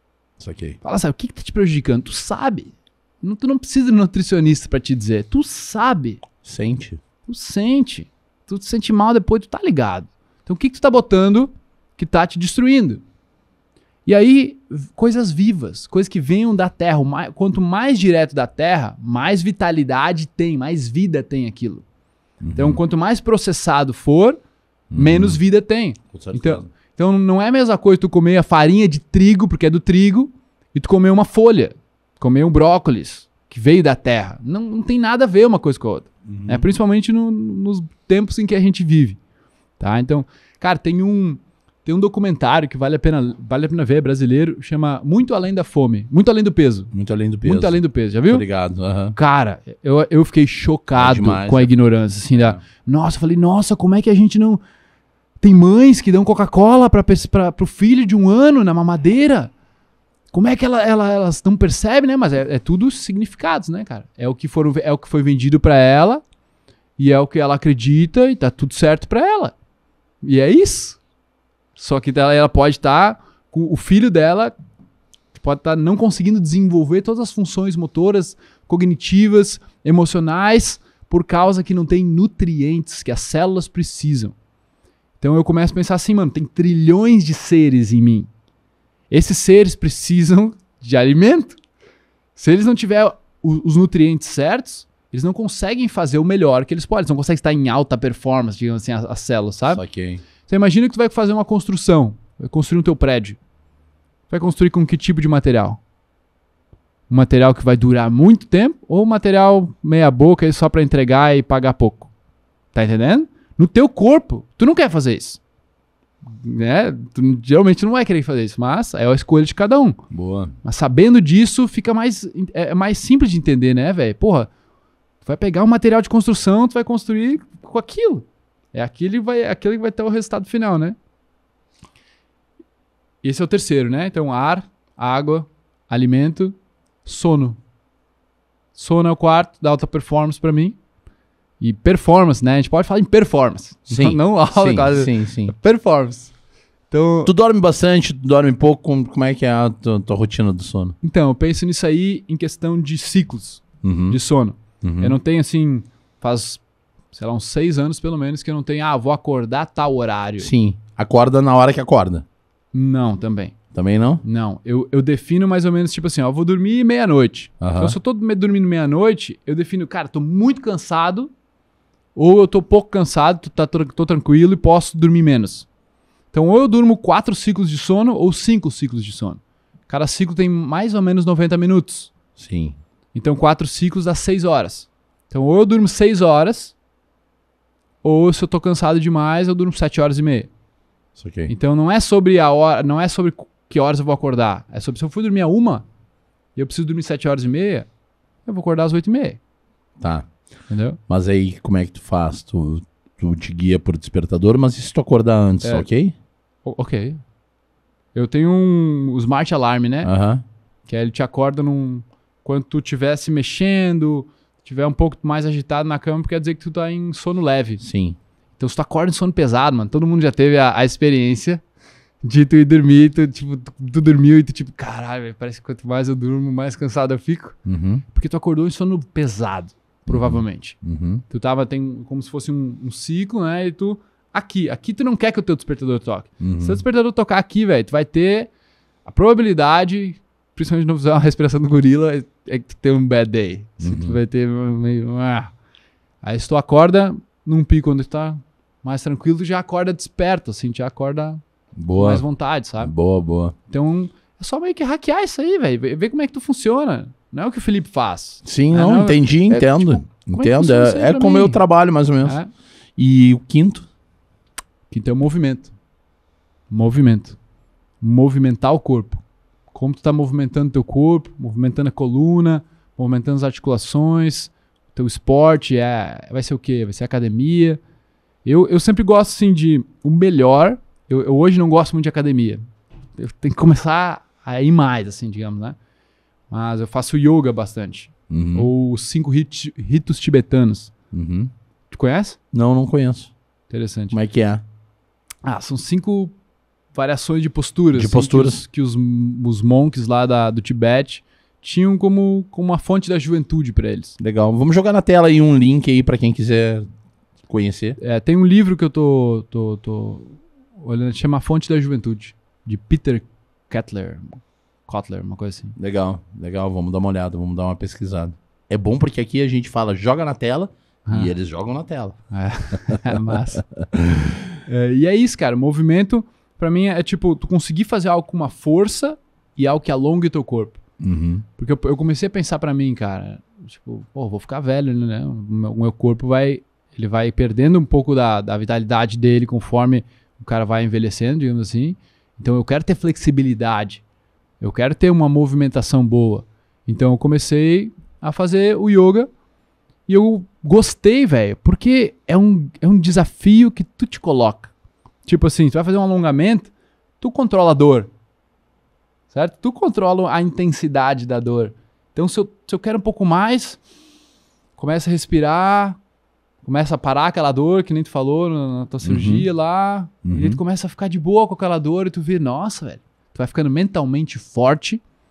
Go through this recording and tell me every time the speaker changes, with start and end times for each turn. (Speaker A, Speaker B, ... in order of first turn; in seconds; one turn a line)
Speaker A: 0.4-0.8
Speaker B: 0.8-6.2
Speaker A: 6.4-7.0
Speaker B: 7.3-13.0
Speaker B: 14.1-21.8
Speaker A: 22.4-22.8
Speaker B: 22.6-24.4
Speaker A: 24.9-25.4
Speaker B: 24.9-39.2
Speaker A: 26.1-26.7
Speaker A: 36.3-36.7
Speaker B: 39.8-46.9
Speaker A: 46.9-49.2
Speaker B: 47.4-48.5
Speaker B: 49.1-54.6
Speaker A: 51.0-51.7
Speaker A: 52.3-52.6
Speaker B: 55.4-59.5
Speaker B: 60.3-66.2
Speaker B: 67.0-69.5
Speaker B: 70.2-71.0
Speaker B: 71.8-74.5
Speaker B: 75.3-84.3
Speaker B: 85.2-88.3
Speaker B: 89.1-91.6
Speaker B: 92.4-99.8
Speaker A: 99.7-100.2
Speaker B: 100.5-103.4
Speaker B: 104.3-105.8
Speaker B: 107.1-112.1
Speaker B: 112.7-115.4
Speaker B: 116.3-120.0
Speaker A: 120.1-120.5
Speaker B: 120.6-124.5
Speaker B: 125.2-131.0
Speaker B: 133.2-137.6
Speaker B: 138.8-140.8
Speaker B: 141.6-146.3
Speaker A: 143.9-145.5
Speaker B: 146.9-147.3
Speaker A: 147.2-151.0
Speaker B: 151.0-156.6
Speaker A: 153.8-154.2
Speaker A: 154.8-155.2
Speaker B: 157.1-160.5
Speaker A: 160.4-162.2
Speaker B: 162.7-163.6
Speaker A: 163.7-164.2
Speaker B: 164.2-171.3
Speaker A: 167.6-168.0
Speaker B: 172.2-175.7
Speaker B: 176.3-182.1
Speaker A: 182.4-182.8
Speaker B: 183.1-186.8
Speaker B: 188.0-190.5
Speaker A: 191.2-191.5
Speaker B: 191.5-195.9
Speaker B: 196.6-197.9
Speaker B: 198.5-199.4
Speaker A: 200.0-200.3
Speaker B: 200.7-201.0
Speaker A: 201.1-206.1
Speaker B: 205.6-205.9
Speaker B: 206.6-207.2
Speaker B: 208.1-210.1
Speaker A: 210.0-210.4
Speaker B: 210.9-217.8
Speaker A: 217.8-218.2
Speaker B: 218.6-221.6
Speaker B: 222.2-227.6
Speaker A: 227.7-228.0
Speaker B: 228.1-230.8
Speaker A: 230.1-231.2
Speaker B: 231.3-238.5
Speaker A: 236.4-236.8
Speaker B: 239.1-245.5
Speaker A: 243.8-244.2
Speaker B: 246.2-251.4
Speaker A: 251.8-252.2
Speaker B: 252.0-252.9
Speaker A: 252.8-253.6
Speaker B: 253.7-261.6
Speaker A: 258.4-262.4
Speaker B: 262.2-262.5
Speaker A: 263.0-263.9
Speaker B: 264.9-265.7
Speaker B: 266.7-267.4
Speaker B: 268.0-277.8
Speaker B: 278.4-282.6
Speaker B: 283.2-285.8
Speaker B: 286.5-290.9
Speaker A: 288.3-288.7
Speaker A: 291.1-291.5
Speaker B: 291.9-292.4
Speaker A: 292.5-293.3
Speaker B: 293.7-294.2
Speaker A: 294.1-294.6
Speaker B: 295.4-296.4
Speaker B: 296.9-304.2
Speaker A: 297.9-298.6
Speaker A: 304.2-306.9
Speaker A: 307.5-308.0
Speaker B: 308.0-315.8
Speaker A: 315.8-322.2
Speaker B: 321.1-321.3
Speaker B: 322.3-323.6
Speaker A: 323.9-324.3
Speaker B: 324.6-330.8
Speaker A: 331.0-331.4
Speaker B: 331.6-344.0
Speaker B: 344.6-349.3
Speaker B: 350.1-354.7
Speaker B: 355.3-358.1
Speaker B: 359.3-363.8
Speaker B: 364.8-366.0
Speaker B: 366.6-375.0
Speaker A: 369.0-369.5
Speaker A: 370.3-370.6